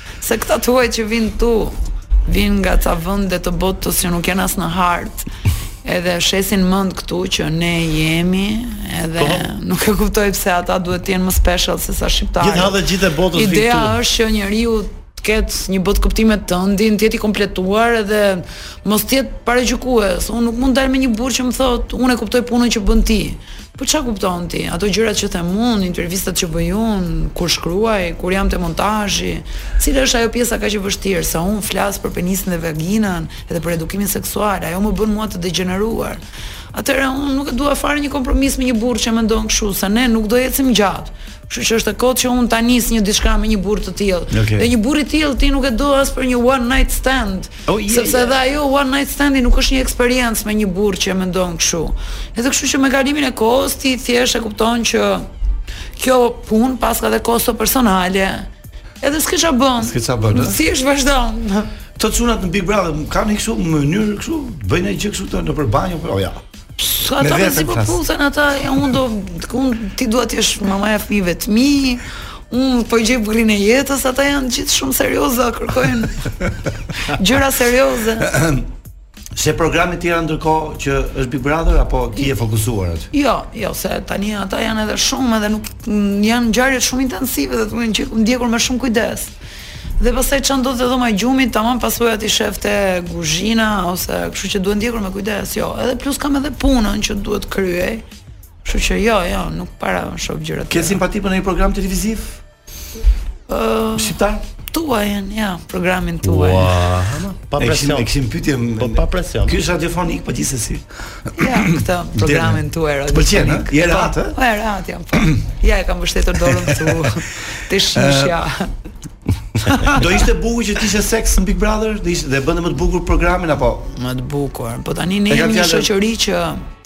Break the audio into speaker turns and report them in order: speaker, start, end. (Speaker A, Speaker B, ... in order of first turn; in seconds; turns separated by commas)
Speaker A: 0.2-5.3, Speaker A: 5.8-12.7, Speaker B: 9.2-9.5, Speaker B: 12.4-13.9, Speaker A: 13.3-36.2, Speaker A: 36.7-55.3, Speaker C: 44.3-44.7, Speaker B: 47.7-48.4, Speaker A: 56.0-58.5, Speaker A: 59.0-61.7, Speaker C: 59.8-60.6, Speaker C: 62.0-66.4, Speaker A: 66.8-76.3, Speaker C: 67.2-68.0, Speaker A: 77.1-78.3, Speaker C: 78.2-78.7, Speaker C: 79.3-83.1, Speaker A: 83.1-89.3, Speaker A: 90.0-98.0, Speaker A: 98.6-101.0, Speaker C: 100.7-102.4, Speaker A: 103.5-104.2, Speaker C: 104.0-104.4, Speaker A: 104.7-106.7, Speaker B: 106.2-108.1, Speaker C: 107.6-110.8, Speaker B: 108.8-109.6, Speaker A: 111.4-118.7, Speaker C: 111.4-114.4, Speaker C: 116.5-117.0, Speaker C: 117.9-118.4, Speaker A: 119.7-120.1, Speaker C: 119.9-123.9, Speaker A: 123.9-126.6, Speaker C: 125.3-125.9